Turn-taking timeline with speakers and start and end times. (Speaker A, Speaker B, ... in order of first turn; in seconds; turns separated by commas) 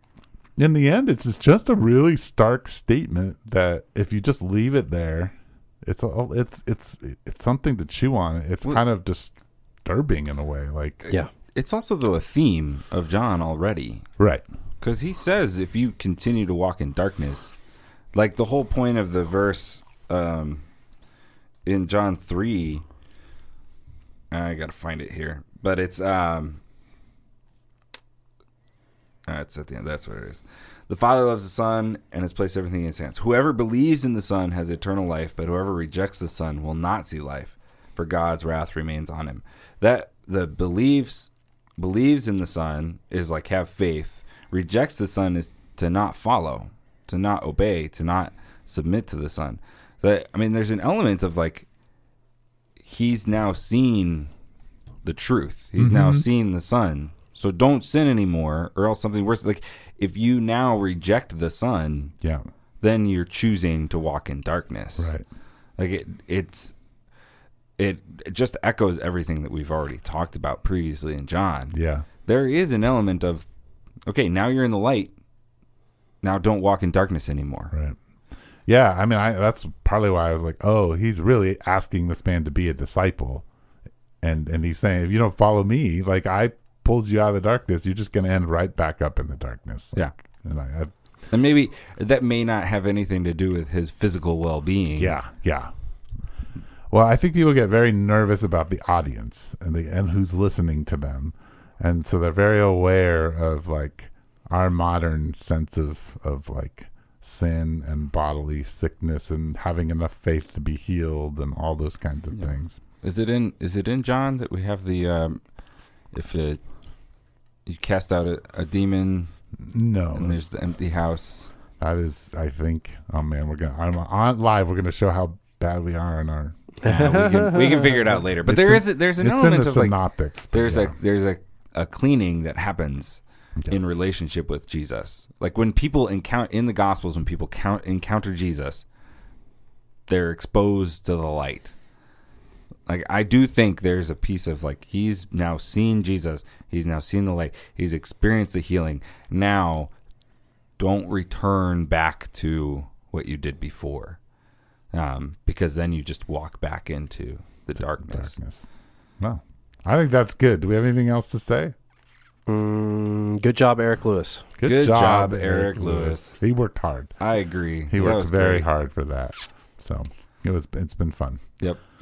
Speaker A: 0.6-11.0, Speaker B: 11.0-14.0, Speaker B: 14.8-17.5, Speaker B: 18.1-20.6, Speaker B: 21.6-22.8, Speaker B: 24.3-26.6, Speaker B: 29.3-51.6, Speaker B: 52.8-54.3, Speaker B: 55.0-62.1, Speaker A: 55.8-56.2, Speaker B: 62.8-65.1, Speaker A: 65.0-65.2, Speaker B: 65.8-66.7, Speaker B: 67.8-73.5, Speaker A: 71.7-72.1, Speaker B: 74.1-75.1, Speaker B: 76.2-77.7, Speaker A: 77.7-78.0, Speaker A: 78.7-83.4, Speaker A: 84.2-90.9, Speaker B: 91.3-95.1, Speaker A: 95.0-95.7, Speaker A: 96.9-112.8, Speaker B: 112.3-115.4, Speaker B: 116.1-116.6, Speaker B: 117.7-119.3, Speaker A: 119.6-120.4, Speaker B: 120.1-121.5, Speaker A: 121.8-126.7, Speaker B: 126.8-138.8, Speaker C: 126.8-127.9, Speaker A: 128.4-131.0, Speaker B: 140.1-141.7, Speaker B: 142.9-149.9, Speaker B: 150.8-154.2, Speaker B: 154.9-158.3, Speaker A: 158.0-158.7, Speaker A: 159.2-161.7, Speaker C: 162.5-164.4, Speaker A: 164.6-167.2, Speaker B: 164.6-166.4, Speaker B: 167.2-168.7, Speaker A: 167.9-171.4